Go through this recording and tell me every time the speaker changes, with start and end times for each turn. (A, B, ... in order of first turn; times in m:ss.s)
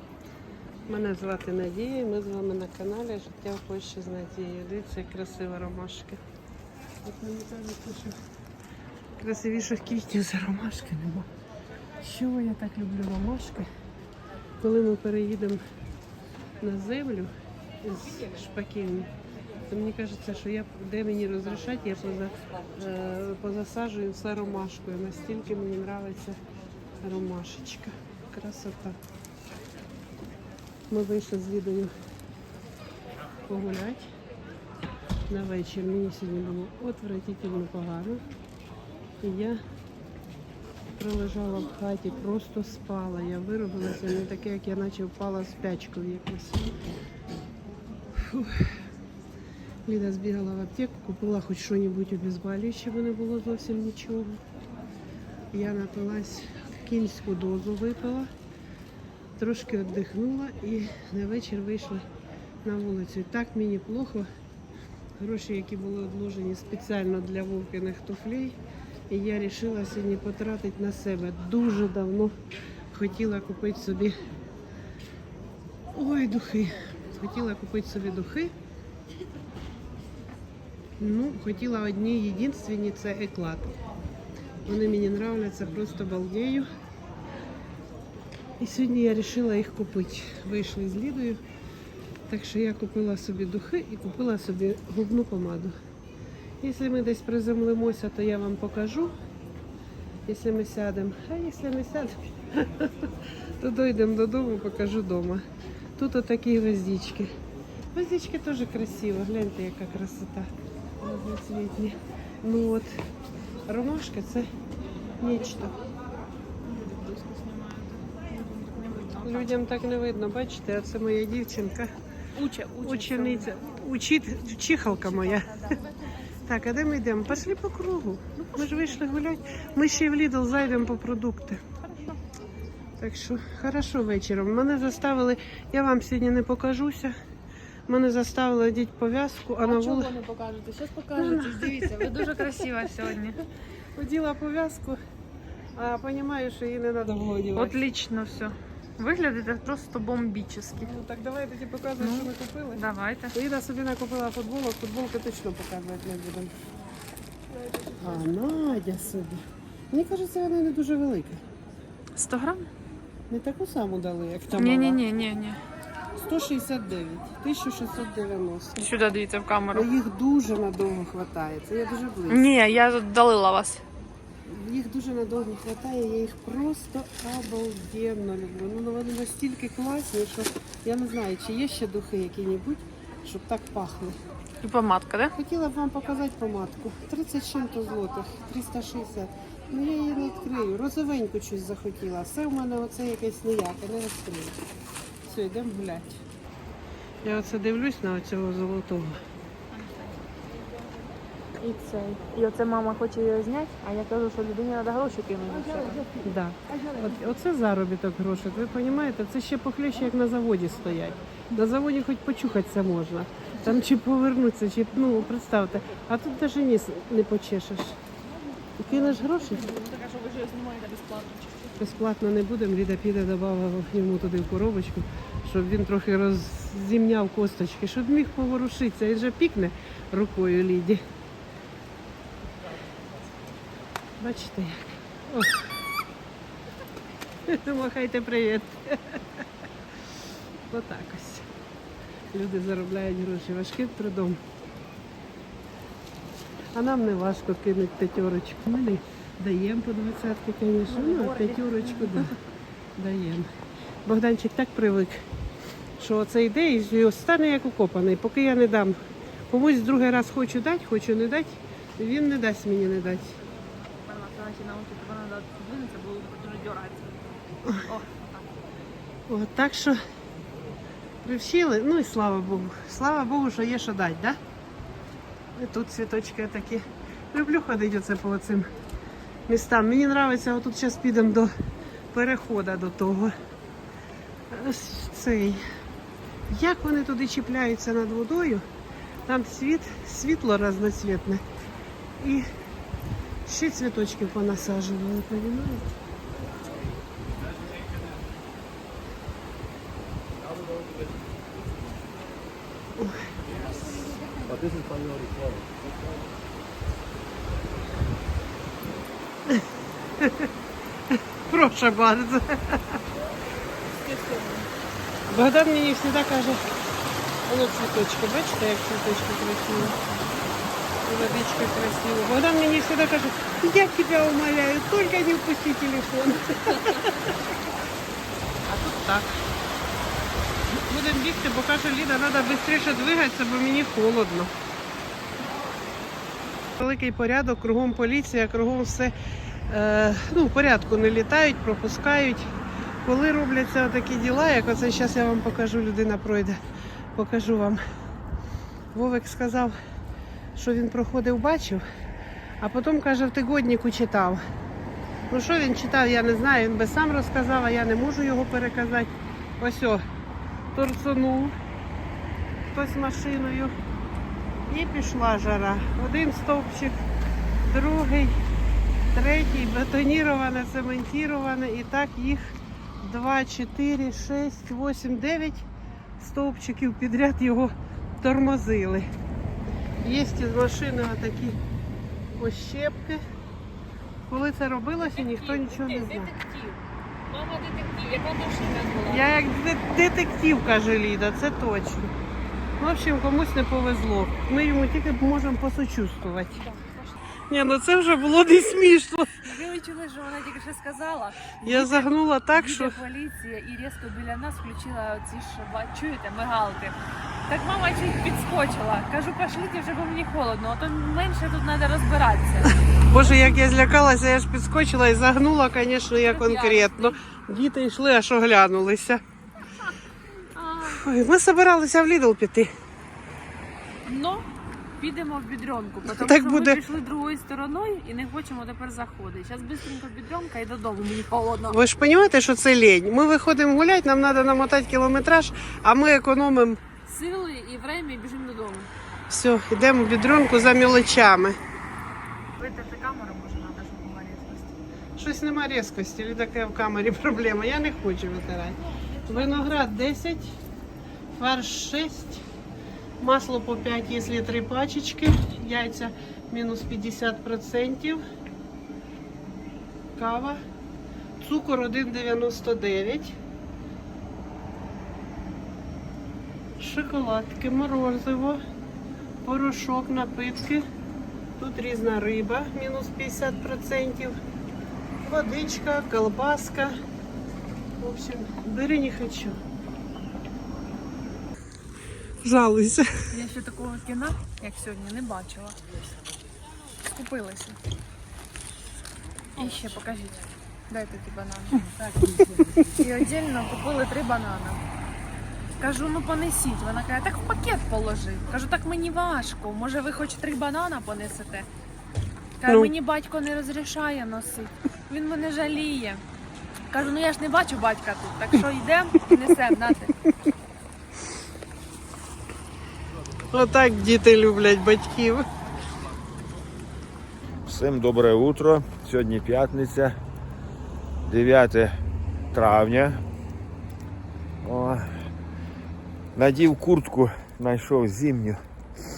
0:00.9-0:06.2 A
0:07.0-0:08.1 A
0:09.2-0:11.3 A
0:12.0-0:13.7 A
0:14.6-0:15.6 A
0:16.6-0:17.3 A
0:17.8-0:19.1 A
0:19.7-0:26.4 A
0:27.0-0:29.0 A
0:30.9-0:31.9 A
0:33.5-0:34.0 A
0:35.3-0:38.2 A
0:39.2-0:39.6 A
0:41.0-0:46.8 A
0:48.1-0:48.7 A
0:49.8-0:54.4 A
0:55.5-0:58.3 A
0:59.4-1:02.0 A
1:02.6-1:04.2 A
1:05.2-1:08.6 A
1:09.1-1:12.3 A
1:12.9-1:14.1 A
1:15.9-1:18.5 A
1:21.0-1:23.7 A
1:24.6-1:26.6 A
1:28.6-1:31.4 A
1:32.3-1:35.7 A
1:36.6-1:39.1 A
1:40.2-1:45.4 A
1:46.0-1:47.3 A
1:47.9-1:50.5 A
1:51.0-1:52.9 A
1:53.7-1:54.5 A
1:55.2-1:55.8 A
1:56.6-1:59.5 B
1:59.2-2:01.9 A
2:02.4-2:03.5 B
2:02.8-2:05.7 A
2:04.9-2:05.8 B
2:06.4-2:11.6 A
2:08.4-2:09.0 B
2:13.0-2:17.1 A
2:17.9-2:20.2 A
2:19.6-2:23.4 B
2:21.1-2:22.9 A
2:23.9-2:25.0 A
2:25.8-2:27.8 A
2:27.5-2:30.9 B
2:30.8-2:32.8 A
2:32.0-2:33.3 B
2:33.3-2:36.5 A
2:38.0-2:39.4 A
2:39.9-2:41.4 A
2:42.1-2:42.7 B
2:43.3-2:45.0 A
2:44.5-2:45.6 B
2:46.2-2:48.8 A
2:48.8-2:49.9 B
2:49.7-2:52.4 A
2:52.3-2:53.8 B
2:54.4-3:04.1 A
3:04.6-3:05.3 B
3:05.3-3:14.6 A
3:15.2-3:16.2 A
3:17.2-3:19.2 A
3:19.7-3:20.2 B
3:21.6-3:26.1 B
3:26.2-3:38.0 A
3:38.8-3:39.6 A
3:38.9-3:41.8 B
3:41.8-3:51.0 A
3:54.2-3:55.6 A
3:57.4-3:59.2 A
4:00.7-4:01.5 A
4:02.3-4:04.4 A
4:06.7-4:12.3 A
4:10.9-4:12.4 B
4:13.0-4:13.4 A
4:14.0-4:15.2 A
4:16.0-4:19.0 A
4:19.5-4:23.3 A
4:23.8-4:28.5 B
4:29.3-4:30.0 A
4:31.2-4:34.4 A
4:35.6-4:38.7 A
4:39.5-4:41.5 A
4:42.1-4:43.3 A
4:44.5-4:45.6 A
4:46.5-4:48.6 A
4:49.2-4:51.4 A
4:52.2-4:52.4 A
4:53.4-4:55.9 A
5:10.2-5:10.5 A
5:11.5-5:13.0 A
5:14.0-5:14.7 B
5:15.3-5:16.6 A
5:17.5-5:20.0 A
5:21.0-5:27.3 A
5:28.7-5:29.4 A
5:30.9-5:34.5 A
5:36.8-5:39.1 A
5:39.7-5:42.5 A
5:43.0-5:46.6 A
5:47.1-5:47.8 A
5:48.9-5:49.7 A
5:50.5-5:51.8 A
5:52.6-5:54.4 A
5:55.3-6:00.0 A
6:00.7-6:01.5 A
6:02.7-6:03.7 A
6:04.7-6:07.0 A
6:07.6-6:08.4 A
6:09.1-6:15.6 A
6:16.2-6:19.0 A
6:20.0-6:21.6 A
6:22.4-6:23.2 A
6:24.3-6:26.3 A
6:25.0-6:29.3 B
6:29.0-6:32.1 A
6:32.8-6:36.6 A
6:36.6-6:37.2 B
6:37.5-6:39.3 A
6:39.4-6:47.0 B
6:41.6-6:43.0 A
6:47.5-6:53.6 B
6:53.1-6:59.2 A
6:56.2-6:57.1 B
7:00.5-7:01.0 B
7:00.8-7:02.7 A
7:04.0-7:04.5 B
7:05.0-7:11.8 B
7:06.0-7:06.8 A
7:11.7-7:16.8 A
7:17.1-7:18.9 B
7:19.3-7:21.6 A
7:22.6-7:24.8 B
7:25.2-7:30.6 A
7:29.1-7:29.7 B
7:31.4-7:32.4 A
7:33.2-7:38.2 A
7:40.2-7:40.6 A
7:41.4-7:43.4 A
7:46.8-7:48.6 A
7:49.4-7:50.8 A
7:51.6-7:54.4 A
7:55.2-7:57.0 A
7:58.0-7:59.6 A
8:02.4-8:03.1 A
8:03.3-8:05.8 B
8:07.0-8:07.8 B
8:09.6-8:11.8 B
8:11.8-8:12.8 A
8:12.9-8:14.8 B
8:15.8-8:21.7 B
8:22.6-8:26.2 B
8:26.9-8:30.1 B
8:33.5-8:35.4 A
8:37.6-8:40.2 C
8:41.2-8:41.9 C
8:42.5-8:43.2 C
8:44.6-8:45.1 C
8:46.3-8:48.6 C